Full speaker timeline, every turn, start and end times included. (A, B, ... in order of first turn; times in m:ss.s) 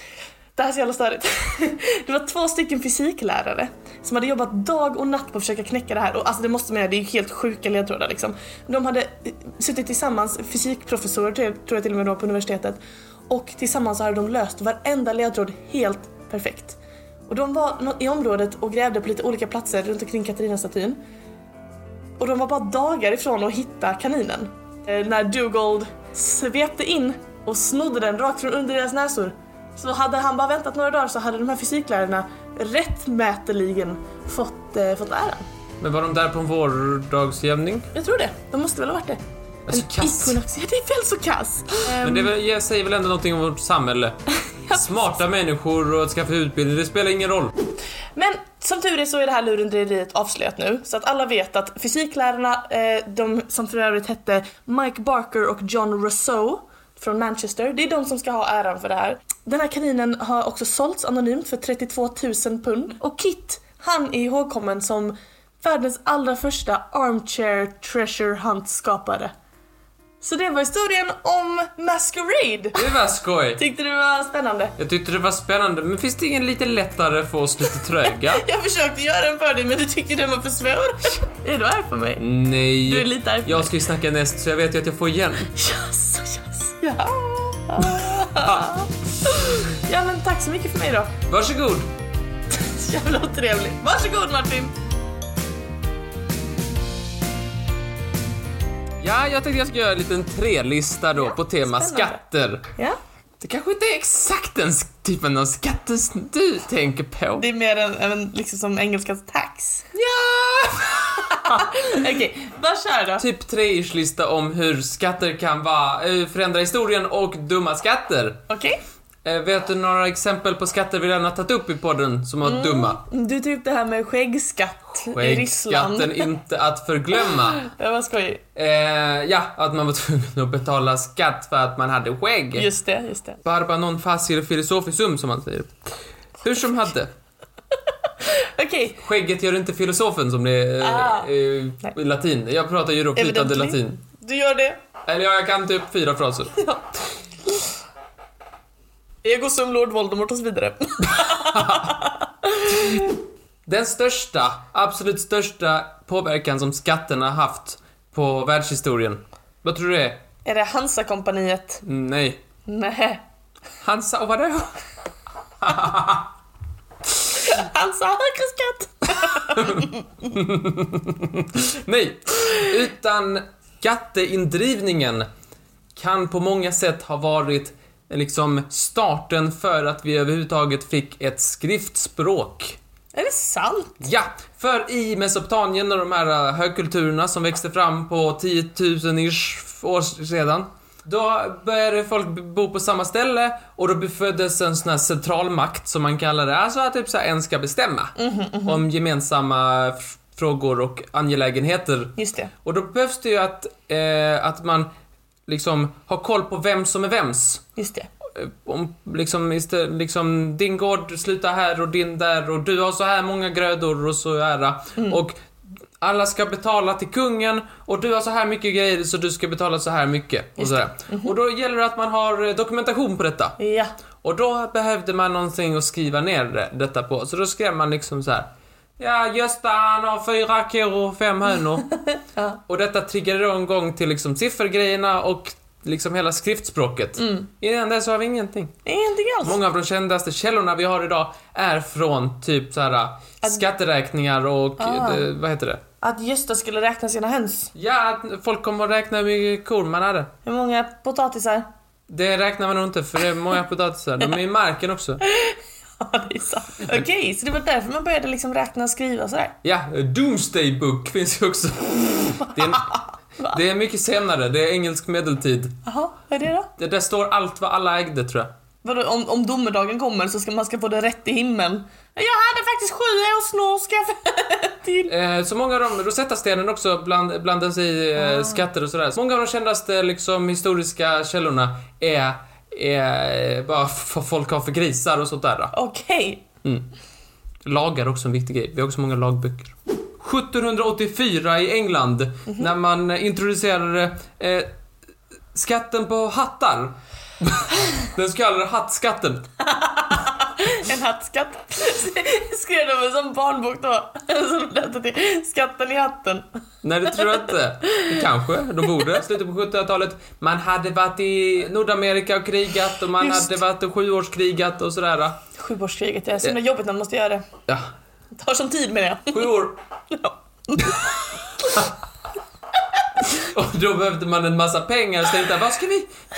0:00.6-0:21.0 A
0:22.2-0:35.4 A
0:35.8-0:37.9 B
0:37.9-0:42.3 A
0:39.7-0:40.4 B
0:41.9-0:44.2 B
0:44.5-0:45.0 A
0:44.7-0:47.5 B
0:48.2-1:09.3 A
1:10.2-1:12.9 A
1:12.8-1:13.6 B
1:13.6-1:14.8 A
1:14.8-1:18.4 B
1:18.0-1:22.2 A
1:22.2-1:25.5 B
1:22.8-1:23.8 A
1:25.6-1:31.1 A
1:28.0-1:28.7 B
1:31.3-1:31.9 B
1:32.5-1:34.8 A
1:39.0-1:42.7 B
1:41.2-1:42.2 A
1:43.4-1:47.5 B
1:47.4-1:49.9 A
1:49.9-1:51.8 B
1:51.2-1:53.2 A
1:53.2-1:58.4 B
1:58.5-1:58.8 A
1:59.2-2:03.0 B
2:02.4-2:06.3 A
2:05.1-2:07.7 B
2:07.3-2:08.4 A
2:08.6-2:12.7 B
2:12.6-2:13.4 A
2:13.4-2:15.8 B
2:16.4-2:17.1 B
2:18.2-2:19.0 A
2:19.0-2:24.0 B
2:20.8-2:21.3 A
2:23.2-2:24.8 A
2:25.1-2:26.6 B
2:29.2-2:33.1 A
2:31.5-2:31.9 B
2:33.7-2:40.2 B
2:40.4-2:41.8 A
2:41.8-2:42.4 B
2:42.7-2:43.2 A
2:43.8-2:44.7 B
2:45.6-2:46.3 B
2:47.3-2:50.1 A
2:49.3-2:55.3 B
2:56.0-3:02.8 B
3:03.1-3:04.0 A
3:04.0-3:24.9 B
3:18.2-3:18.8 A
3:22.2-3:22.5 A
3:25.5-3:27.7 B
3:27.8-3:28.1 A
3:28.3-3:35.4 B
3:36.0-3:43.6 B
3:40.6-3:41.3 A
3:43.6-3:43.9 A
3:44.2-3:52.0 B
3:52.7-3:58.8 B
3:57.2-3:57.4 A
3:58.9-3:59.6 A
3:59.4-4:05.8 B
4:04.8-4:05.2 A
4:06.0-4:07.7 A
4:07.8-4:10.3 B
4:10.4-4:11.7 A
4:12.1-4:15.2 B
4:15.2-4:19.6 A
4:19.6-4:25.8 B
4:22.5-4:23.6 A
4:25.8-4:26.7 A
4:26.8-4:28.5 B
4:28.8-4:35.1 A
4:35.0-4:45.8 B
4:38.3-4:38.6 A
4:45.7-4:46.4 A
4:47.6-4:54.7 B
4:55.5-4:59.5 B
4:59.6-5:06.5 A
5:06.8-5:15.4 B
5:13.2-5:13.6 A
5:15.6-5:17.5 A
5:18.3-5:21.8 A
5:19.3-5:19.8 B
5:23.3-5:26.1 B